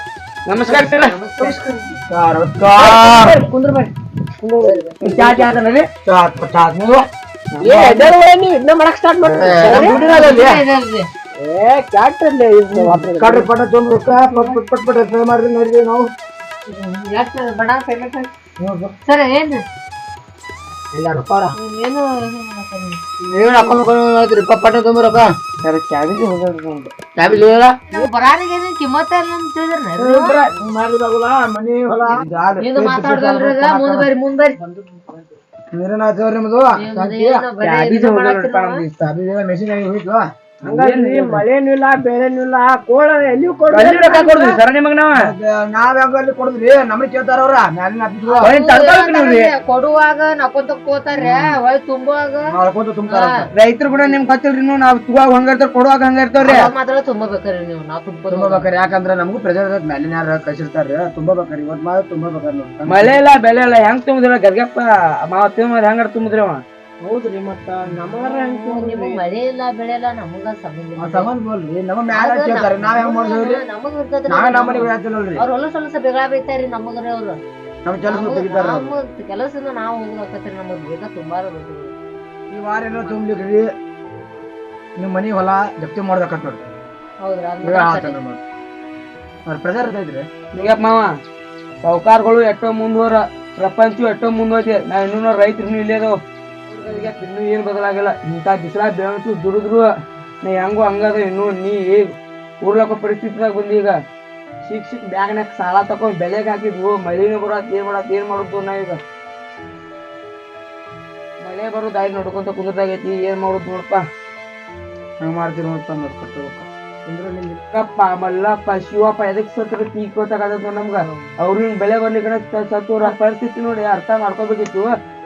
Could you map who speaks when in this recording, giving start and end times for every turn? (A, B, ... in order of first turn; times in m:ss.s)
0:00.5-0:01.2 A
0:00.7-0:01.9 B
0:01.4-0:01.6 C
0:02.1-0:03.2 D
0:02.8-0:03.3 A
0:02.8-0:05.6 C
0:05.0-0:05.9 A
0:06.0-0:07.0 D
0:07.5-0:08.1 A
0:07.6-0:10.0 C
0:09.3-0:10.6 D
0:09.7-0:11.1 B
0:09.9-0:10.5 A
0:11.4-0:13.5 C
0:12.7-0:16.1 D
0:16.7-0:18.3 B
0:18.6-0:18.9 D
0:19.0-0:19.6 B
0:20.9-0:21.6 D
0:21.6-0:23.0 B
0:23.3-0:25.3 D
0:25.6-0:27.4 A
0:27.2-0:27.7 D
0:27.9-0:30.4 B
0:30.0-0:34.1 D
0:32.6-0:34.6 B
0:34.6-0:35.3 C
0:35.7-0:37.5 D
0:36.7-0:38.8 B
0:37.6-0:39.0 A
0:39.0-0:40.2 D
0:40.6-0:44.6 C
0:40.6-0:41.4 A
0:43.7-0:45.2 A
0:45.1-0:48.5 D
0:48.2-0:52.5 B
0:48.4-0:49.5 A
0:51.1-0:51.5 D
0:52.5-0:53.5 D
0:53.0-0:53.4 B
0:53.5-0:56.7 A
0:56.4-0:58.7 B
0:58.3-1:03.2 D
1:02.8-1:06.6 A
1:07.0-1:09.2 C
1:08.2-1:11.3 B
1:11.0-1:13.6 D
1:12.1-1:17.4 B
1:14.3-1:15.4 D
1:17.8-1:18.9 D
1:18.0-1:21.9 B
1:22.5-1:23.7 D
1:25.0-1:26.6 D
1:27.2-1:28.2 B
1:27.6-1:28.4 D
1:29.5-1:30.3 D
1:30.5-1:31.1 A
1:31.8-1:36.2 A
1:36.7-1:39.9 A
1:40.4-1:44.0 A
1:44.6-1:49.0 A
1:51.4-1:54.0 A
1:55.2-1:56.7 D
1:57.0-1:57.6 C
1:57.7-2:04.9 A